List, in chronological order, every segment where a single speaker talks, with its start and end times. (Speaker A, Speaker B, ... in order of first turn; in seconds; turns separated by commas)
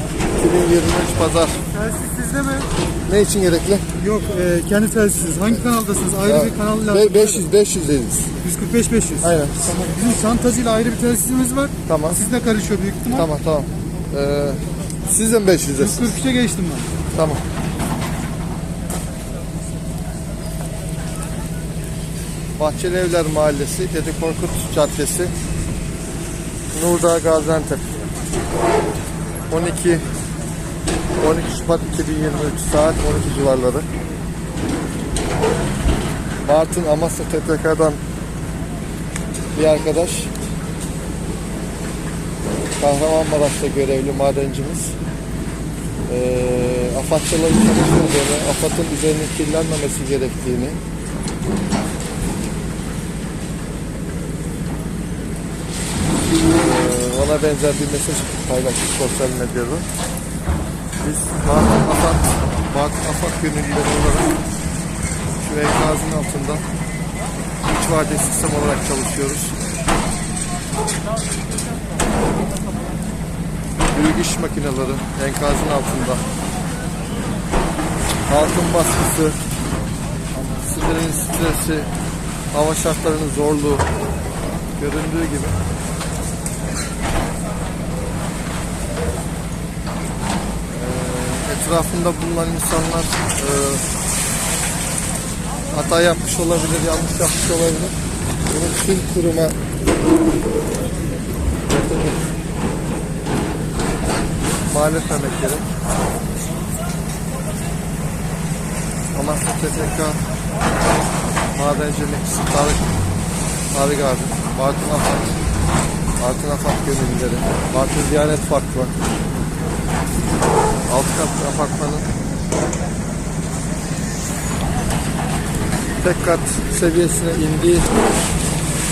Speaker A: 0.3-1.6, Speaker B: 1.7-2.7, Speaker A: 3.1-3.9, Speaker B: 4.0-7.5, Speaker A: 6.3-8.3, Speaker B: 8.4-13.3, Speaker A: 9.2-9.7, Speaker A: 11.9-12.2, Speaker A: 13.1-16.1, Speaker B: 15.8-16.9, Speaker A: 17.1-17.4, Speaker A: 22.6-25.3, Speaker A: 26.7-27.9, Speaker A: 29.5-30.1, Speaker A: 31.2-33.9, Speaker A: 36.4-38.0, Speaker A: 39.5-40.3, Speaker A: 42.8-45.0, Speaker A: 46.1-50.8, Speaker A: 56.5-59.9, Speaker A: 61.0-64.3, Speaker A: 65.4-66.6, Speaker A: 67.7-69.5, Speaker A: 73.9-76.2, Speaker A: 78.3-79.4, Speaker A: 80.3-81.9, Speaker A: 82.5-83.9, Speaker A: 84.8-85.6, Speaker A: 90.7-93.8, Speaker A: 95.7-97.9, Speaker A: 98.5-99.5, Speaker A: 101.7-102.2, Speaker A: 104.7-105.7, Speaker A: 109.1-110.2, Speaker A: 111.5-112.8, Speaker A: 113.7-115.3, Speaker A: 116.2-118.9, Speaker A: 120.9-122.1, Speaker A: 126.0-127.9